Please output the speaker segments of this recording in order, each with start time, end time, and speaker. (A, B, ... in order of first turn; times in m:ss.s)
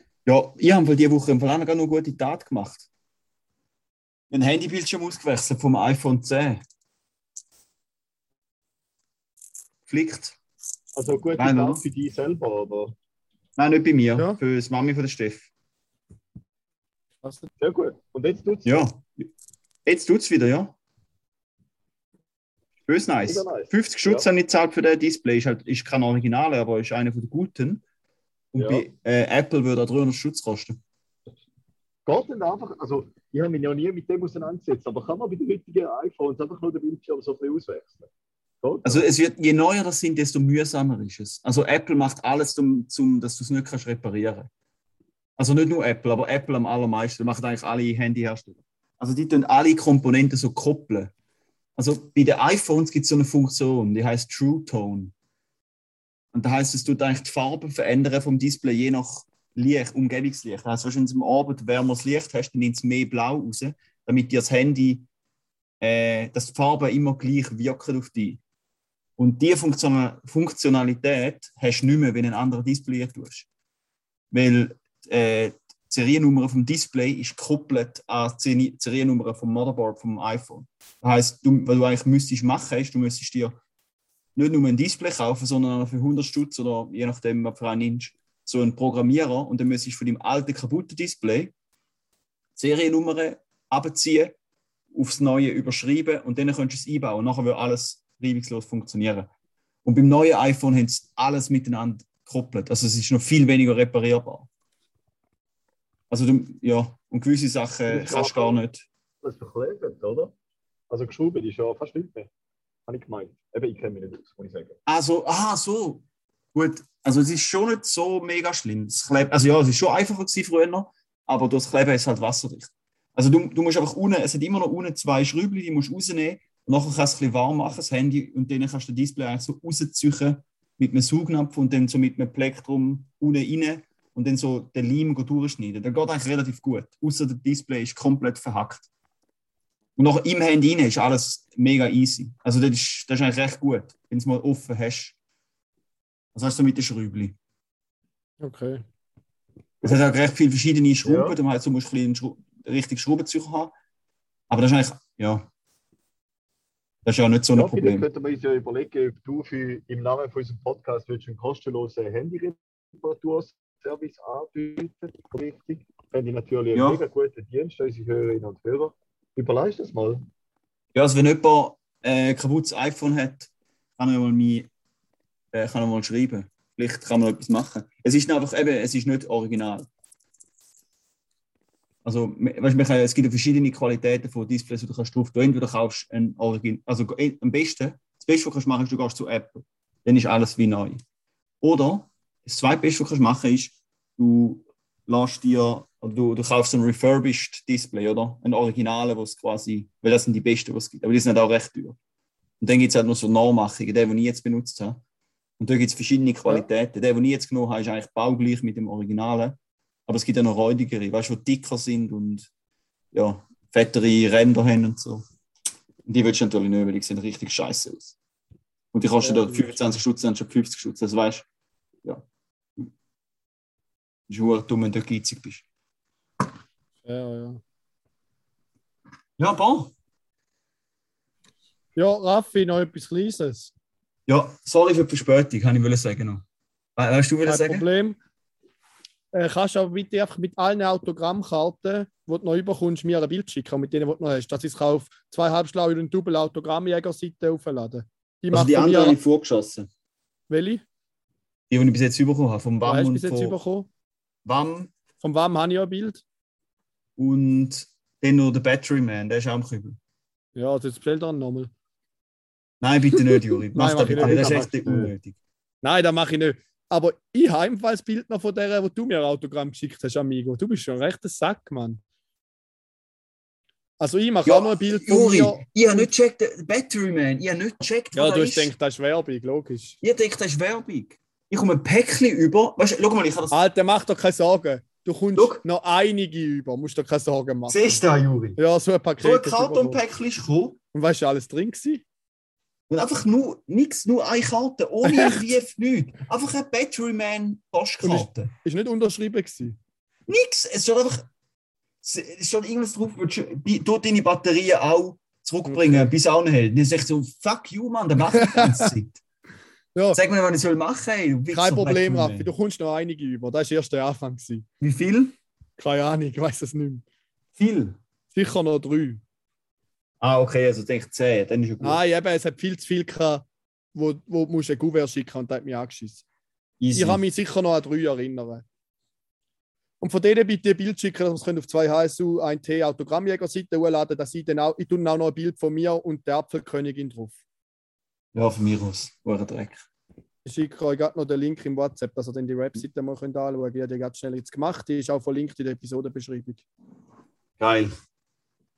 0:00.2-0:02.9 A
0:04.3-0:06.6 A
0:09.9-0:10.4 A
0:10.9-0:12.9 B
0:11.4-0:11.8 A
0:13.6-0:15.5 A
0:17.2-0:17.5 C
0:17.6-0:18.9 B
0:18.6-0:19.3 A
0:19.8-0:20.7 A
0:22.8-0:27.8 A
0:23.2-0:24.2 B
0:28.5-0:30.8 A
0:28.6-0:28.8 B
0:32.0-0:38.1 B
0:38.6-0:39.0 B
0:38.8-0:44.5 A
0:45.4-0:51.1 A
0:51.8-0:55.1 A
0:56.3-1:05.0 A
1:05.8-1:08.4 A
1:09.2-1:13.5 A
1:14.3-1:23.6 A
1:24.3-1:31.5 A
1:32.6-1:34.4 A
1:34.9-1:39.3 A
1:39.8-1:44.5 A
1:46.1-1:48.8 A
1:47.9-1:48.6 B
1:49.2-1:50.3 B
1:50.9-1:52.3 B
1:52.9-1:54.8 B
1:54.8-2:18.9 A
2:20.0-2:25.1 A
2:26.3-2:27.4 A
2:28.4-2:28.8 C
2:29.8-2:33.7 A
2:31.0-2:31.4 B
2:34.5-2:35.5 A
2:37.0-2:38.0 A
2:37.6-2:50.2 B
2:46.7-2:47.0 A
2:50.9-2:54.7 A
2:55.5-2:59.9 A
3:02.0-3:11.0 A
3:11.6-3:22.0 A
3:22.6-3:25.0 A
3:25.6-3:32.5 A
3:33.1-3:35.2 A
3:36.0-3:38.1 A
3:38.9-3:41.4 A
3:39.2-3:39.9 C
3:44.3-3:45.6 A
3:47.0-3:47.6 C
3:49.4-3:49.9 A
3:52.0-3:53.7 C
3:54.3-3:56.4 A
3:57.0-3:57.8 A
3:57.4-3:58.2 C
3:59.3-4:09.2 C
4:08.5-4:09.9 A
4:10.5-4:10.8 C
4:11.7-4:13.6 A
4:12.8-4:13.9 C
4:14.4-4:14.9 A
4:15.2-4:16.2 C
4:17.2-4:20.0 A
4:20.6-4:21.7 C
4:22.8-4:25.4 A
4:23.7-4:24.7 C
4:24.2-4:25.1 B
4:25.8-4:32.0 C
4:34.0-4:35.6 C
4:34.4-4:38.7 A
4:38.1-4:40.0 C
4:40.0-4:43.6 A
4:43.5-4:48.0 C
4:45.3-4:45.6 A
4:47.7-4:48.6 A
4:48.6-4:50.0 C
4:49.2-4:50.8 A
4:50.9-4:52.0 C
4:52.9-4:58.5 A
4:55.0-4:55.4 C
4:58.0-4:59.8 C
5:00.3-5:01.3 A
5:02.0-5:09.2 A
5:05.6-5:06.1 C
5:08.4-5:08.9 C
5:09.9-5:10.2 C
5:10.1-5:12.5 A
5:11.5-5:14.6 C
5:14.8-5:15.4 A
5:15.8-5:17.0 C
5:17.6-5:18.0 A
5:18.3-5:19.2 C
5:20.2-5:22.0 A
5:21.8-5:26.2 C
5:26.8-5:27.2 A
5:26.9-5:28.6 C
5:30.0-5:37.4 C
5:38.3-5:39.8 A
5:40.4-5:46.6 C
5:47.6-5:47.9 A